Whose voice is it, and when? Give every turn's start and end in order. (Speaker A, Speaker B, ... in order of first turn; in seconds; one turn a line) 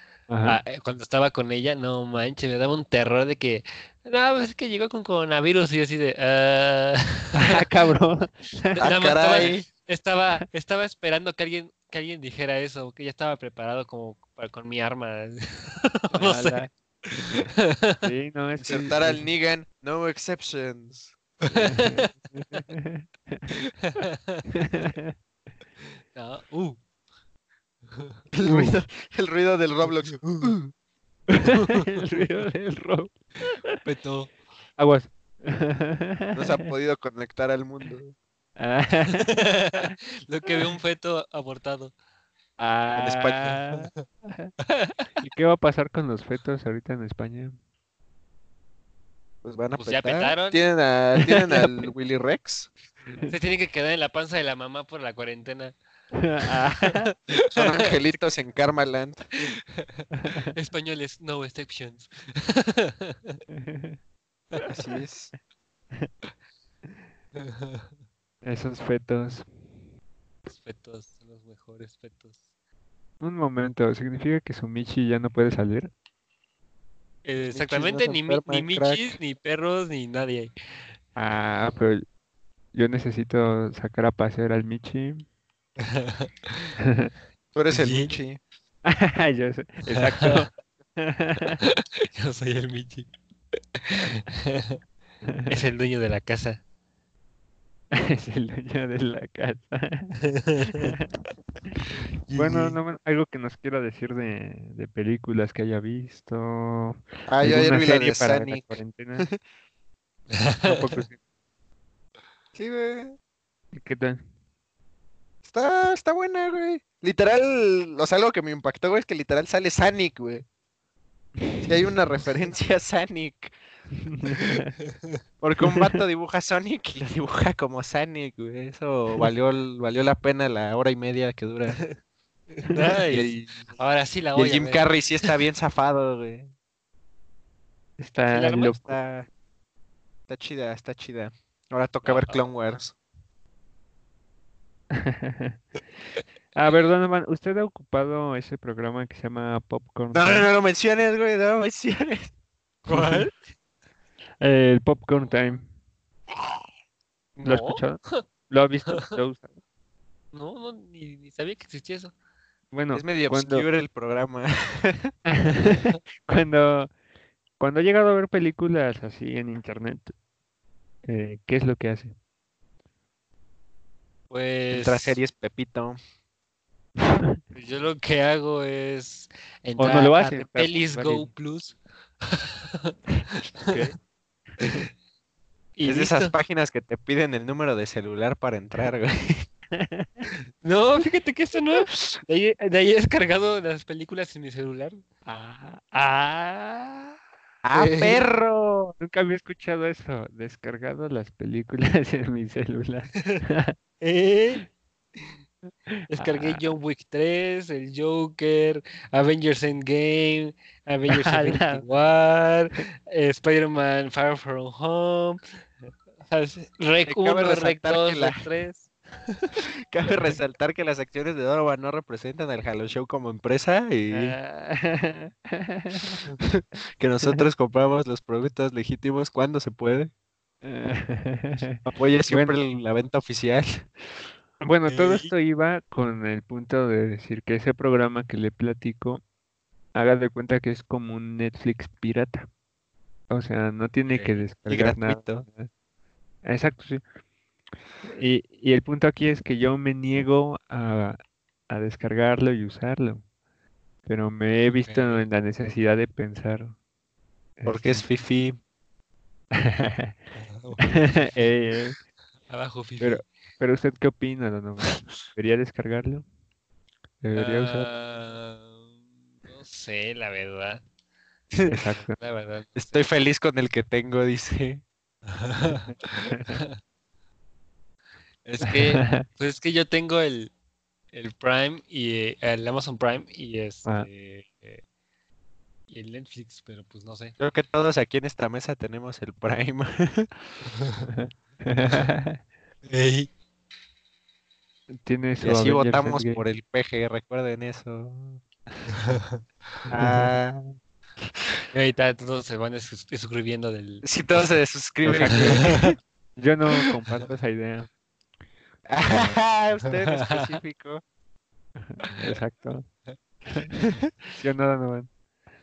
Speaker A: 0.3-0.6
Speaker B: 0.4-7.6
Speaker A: 7.4-8.8
Speaker B: 8.8-16.6
Speaker C: 8.8-9.7
Speaker A: 16.1-16.7
Speaker B: 17.3-18.1
Speaker A: 18.0-19.3
Speaker C: 18.6-21.7
Speaker B: 21.4-22.1
Speaker A: 21.6-23.6
Speaker B: 23.8-24.4
Speaker A: 24.5-25.2
Speaker B: 26.1-26.8
Speaker C: 28.3-30.7
Speaker A: 28.4-28.8
Speaker B: 30.2-30.4
Speaker A: 31.3-33.2
Speaker B: 31.5-31.9
Speaker B: 33.8-34.3
Speaker A: 34.8-36.5
Speaker C: 36.4-38.2
Speaker A: 38.6-39.9
Speaker B: 39.1-41.9
Speaker A: 40.5-40.7
Speaker A: 42.6-44.5
Speaker C: 43.0-43.6
Speaker B: 44.6-45.1
Speaker A: 45.2-47.6
Speaker C: 49.4-52.7
Speaker B: 49.8-50.6
Speaker B: 53.3-55.8
Speaker A: 56.1-57.1
Speaker B: 56.5-57.9
Speaker C: 57.5-59.3
Speaker B: 59.5-63.4
Speaker A: 60.2-60.5
Speaker A: 63.5-64.0
Speaker C: 64.6-65.3
Speaker B: 67.3-67.9
Speaker A: 68.4-69.5
Speaker B: 70.5-72.4
Speaker A: 73.2-75.9
Speaker B: 77.2-80.5
Speaker C: 77.5-79.2
Speaker A: 81.2-82.0
Speaker A: 82.7-85.2
Speaker B: 85.8-86.8
Speaker A: 86.8-87.1
Speaker C: 87.5-88.4
Speaker B: 87.7-88.2
Speaker A: 88.8-91.6
Speaker B: 89.9-90.5
Speaker B: 91.6-93.1
Speaker B: 93.8-94.8
Speaker A: 95.2-95.6
Speaker B: 95.5-96.6
Speaker A: 97.9-100.2
Speaker B: 100.2-100.9
Speaker A: 100.7-101.1
Speaker B: 102.3-102.8
Speaker A: 102.3-109.3
Speaker C: 107.3-109.4
Speaker B: 110.3-111.0
Speaker A: 110.7-111.2
Speaker C: 112.5-113.2
Speaker A: 113.7-114.2
Speaker C: 115.5-120.5
Speaker C: 121.6-123.5
Speaker A: 124.0-124.7
Speaker C: 125.4-131.8
Speaker B: 132.6-135.3
Speaker A: 132.7-133.0
Speaker C: 133.1-133.7
Speaker C: 134.4-136.5
Speaker A: 138.0-138.9
Speaker B: 138.3-138.8
Speaker C: 138.8-139.3
Speaker C: 140.3-142.9
Speaker B: 142.0-142.4
Speaker A: 144.9-145.6
Speaker A: 146.6-150.5
Speaker C: 150.1-152.3
Speaker A: 152.9-153.3
Speaker B: 152.9-153.3
Speaker A: 154.4-155.7
Speaker B: 157.4-158.2
Speaker A: 157.4-159.5
Speaker B: 158.9-159.2
Speaker B: 160.3-162.1
Speaker A: 162.7-163.7
Speaker C: 162.9-165.1
Speaker A: 165.3-166.9
Speaker A: 167.6-170.1
Speaker A: 171.1-172.1
Speaker B: 174.3-175.2
Speaker C: 174.7-176.0
Speaker A: 177.0-177.4
Speaker B: 177.5-182.9
Speaker A: 179.8-181.3
Speaker B: 183.6-183.9
Speaker A: 183.7-183.9
Speaker B: 185.8-186.3
Speaker C: 185.9-189.5
Speaker A: 189.7-190.3
Speaker B: 190.6-195.0
Speaker A: 195.3-197.2
Speaker C: 197.6-198.9
Speaker B: 197.7-198.2
Speaker A: 199.0-203.8
Speaker B: 203.2-203.4
Speaker B: 204.0-204.7
Speaker B: 206.1-215.4
Speaker A: 206.1-206.6
Speaker A: 211.1-211.8
Speaker B: 216.2-219.5
Speaker C: 217.1-218.5
Speaker C: 219.9-224.4
Speaker A: 224.1-226.2
Speaker C: 226.4-230.1
Speaker A: 230.6-232.5
Speaker C: 231.8-233.9
Speaker A: 234.6-239.2
Speaker B: 234.9-235.3
Speaker A: 239.9-242.5
Speaker A: 243.3-245.7
Speaker B: 244.1-244.4
Speaker C: 244.7-245.5
Speaker A: 246.4-247.0
Speaker A: 248.0-251.2
Speaker A: 251.7-253.2
Speaker A: 254.1-256.8
Speaker B: 254.8-255.2
Speaker A: 257.6-258.1
Speaker C: 257.7-258.6
Speaker A: 259.5-260.1
Speaker B: 260.4-261.5
Speaker A: 260.8-262.0
Speaker B: 262.5-263.2
Speaker A: 263.0-266.2
Speaker A: 267.2-267.9
Speaker B: 267.4-268.9
Speaker B: 269.5-270.8
Speaker A: 271.7-272.2
Speaker B: 271.8-272.8
Speaker C: 272.8-274.8
Speaker B: 275.3-276.8
Speaker A: 276.3-276.6
Speaker B: 278.5-280.5
Speaker A: 278.6-279.2
Speaker B: 281.1-284.8
Speaker B: 285.9-287.4
Speaker C: 287.4-290.3
Speaker B: 290.7-291.1
Speaker A: 291.1-292.4
Speaker B: 292.9-293.3
Speaker A: 294.9-296.4
Speaker C: 295.4-298.4
Speaker B: 298.9-299.4
Speaker A: 299.9-300.3
Speaker C: 299.9-300.8
Speaker B: 301.7-304.1
Speaker C: 304.0-305.9
Speaker A: 305.1-305.7
Speaker B: 305.2-305.9
Speaker A: 306.4-307.9
Speaker C: 308.9-311.0
Speaker A: 309.1-309.4
Speaker B: 309.8-310.5
Speaker A: 311.8-312.9
Speaker A: 314.4-315.1